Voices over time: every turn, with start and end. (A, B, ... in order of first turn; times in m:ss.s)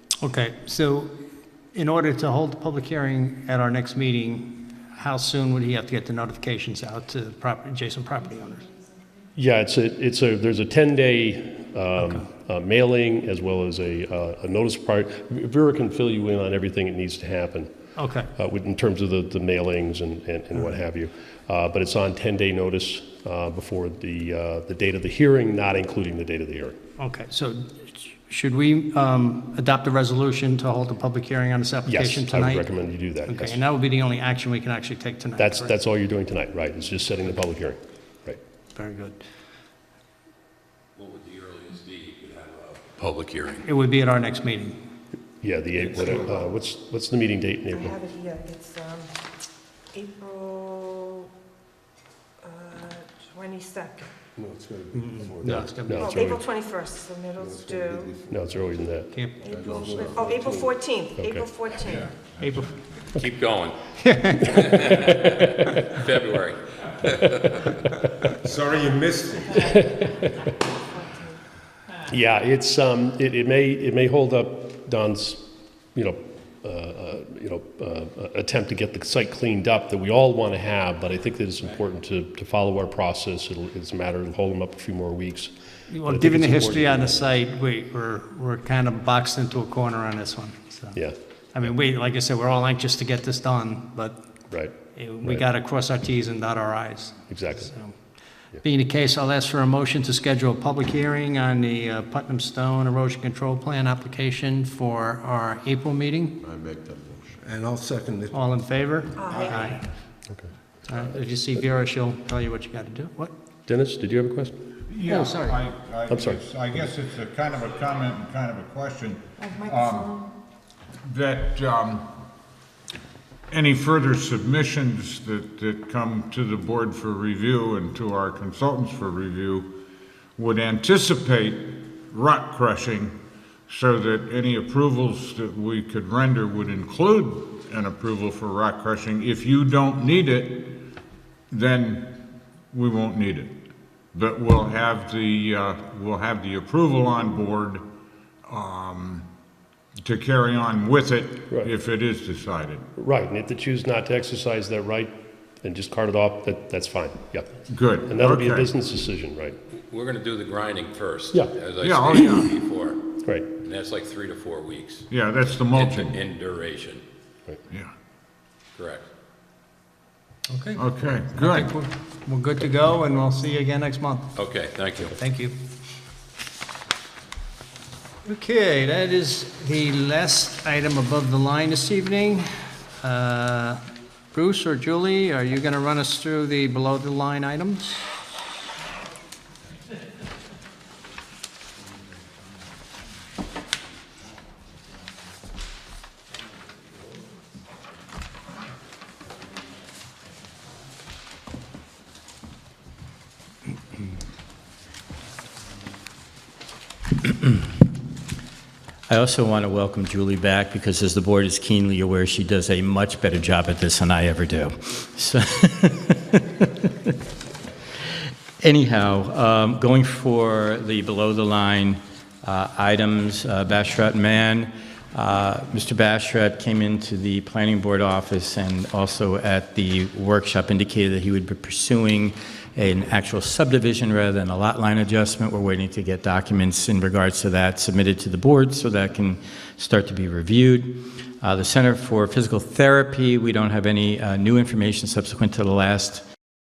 0:00.2-0:01.1 A
0:01.7-0:08.6 A
0:09.4-0:17.7 B
0:12.0-0:12.3 A
0:18.0-0:18.3 A
0:18.4-0:26.8 B
0:27.0-0:32.7 A
0:31.9-0:33.6 B
0:33.3-0:35.7 A
0:35.4-0:38.4 B
0:38.8-0:39.2 A
0:41.0-0:43.7 C
0:43.6-0:44.8 A
0:45.4-0:48.0 B
0:47.7-0:49.1 D
0:49.9-0:51.3 D
0:52.4-0:54.1 D
0:54.4-0:56.2 E
0:54.9-0:56.0 A
0:55.9-0:56.5 B
0:56.0-0:58.1 D
0:57.4-0:58.9 E
0:58.3-0:59.1 B
0:59.1-0:59.5 A
0:59.4-1:02.4 D
0:59.4-1:00.8 E
1:01.2-1:01.5 B
1:01.8-1:03.1 F
1:02.4-1:02.7 A
1:03.1-1:03.8 C
1:04.0-1:04.6 A
1:04.5-1:07.5 C
1:05.1-1:05.5 B
1:08.4-1:09.8 E
1:09.6-1:10.4 B
1:11.0-1:11.3 D
1:12.0-1:27.3 B
1:25.9-1:31.0 A
1:31.5-1:34.2 A
1:34.5-1:35.5 B
1:34.9-1:38.0 A
1:37.3-1:37.7 B
1:38.6-1:46.4 A
1:46.4-1:48.7 E
1:48.3-1:49.8 A
1:49.2-1:49.7 D
1:50.9-1:53.3 A
1:53.7-1:54.6 B
1:54.9-2:00.1 F
1:55.1-1:55.6 A
1:56.1-1:56.4 B
1:59.4-2:00.3 D
2:01.0-2:02.0 F
2:03.5-2:09.7 F
2:10.4-2:13.2 F
2:13.7-2:20.7 F
2:21.5-2:22.2 F
2:22.7-2:23.5 F
2:24.1-2:27.8 F
2:28.5-2:29.2 F
2:30.0-2:32.9 F
2:33.0-2:39.6 B
2:37.7-2:38.7 F
2:39.7-2:43.0 C
2:41.8-2:42.5 F
2:43.2-2:43.5 B
2:43.6-2:47.0 C
2:45.1-2:46.2 F
2:48.8-2:49.1 C
2:50.5-2:54.4 A
2:50.8-2:51.7 F
2:54.4-2:55.1 C
2:55.1-2:55.6 A
2:58.2-3:02.5 A
3:03.0-3:03.8 A
3:04.3-3:08.1 A
3:29.1-3:37.1 G
3:38.6-4:06.2 G